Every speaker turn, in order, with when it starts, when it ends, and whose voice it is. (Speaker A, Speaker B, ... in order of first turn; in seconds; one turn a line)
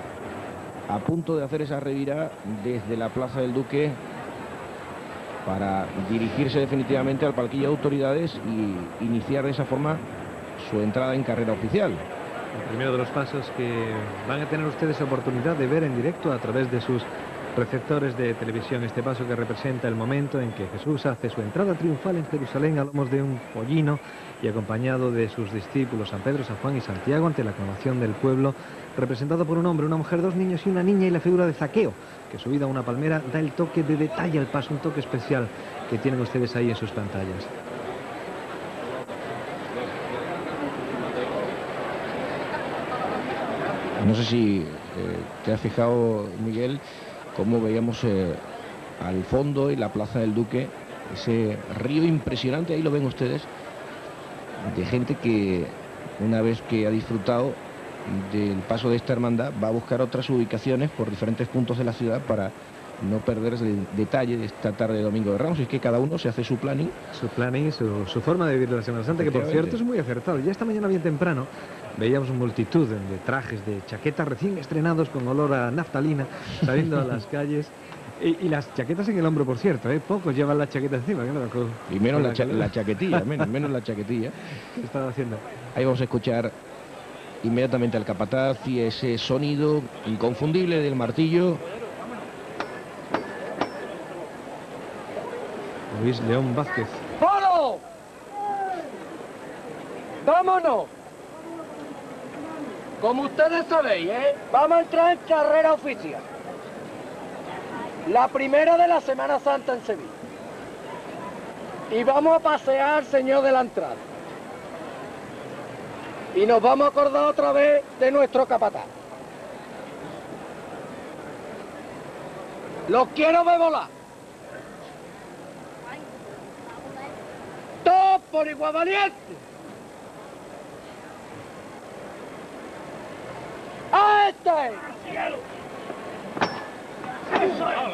Speaker A: 0.9-4.0
Speaker A: 5.5-10.0
Speaker A: 10.6-12.1
Speaker B: 12.6-37.5
Speaker A: 44.0-46.8
Speaker A: 47.4-48.4
Speaker A: 49.0-53.5
Speaker A: 54.6-67.0
Speaker B: 67.1-83.7
Speaker A: 69.2-69.8
Speaker A: 81.9-84.4
Speaker B: 84.6-85.4
Speaker A: 85.7-86.5
Speaker A: 87.4-91.6
Speaker B: 95.9-97.1
Speaker C: 97.2-97.8
Speaker C: 100.2-100.9
Speaker C: 103.0-106.2
Speaker C: 108.0-110.2
Speaker C: 111.9-114.0
Speaker C: 116.3-118.9
Speaker C: 122.9-123.9
Speaker C: 127.8-129.4
Speaker C: 133.9-135.2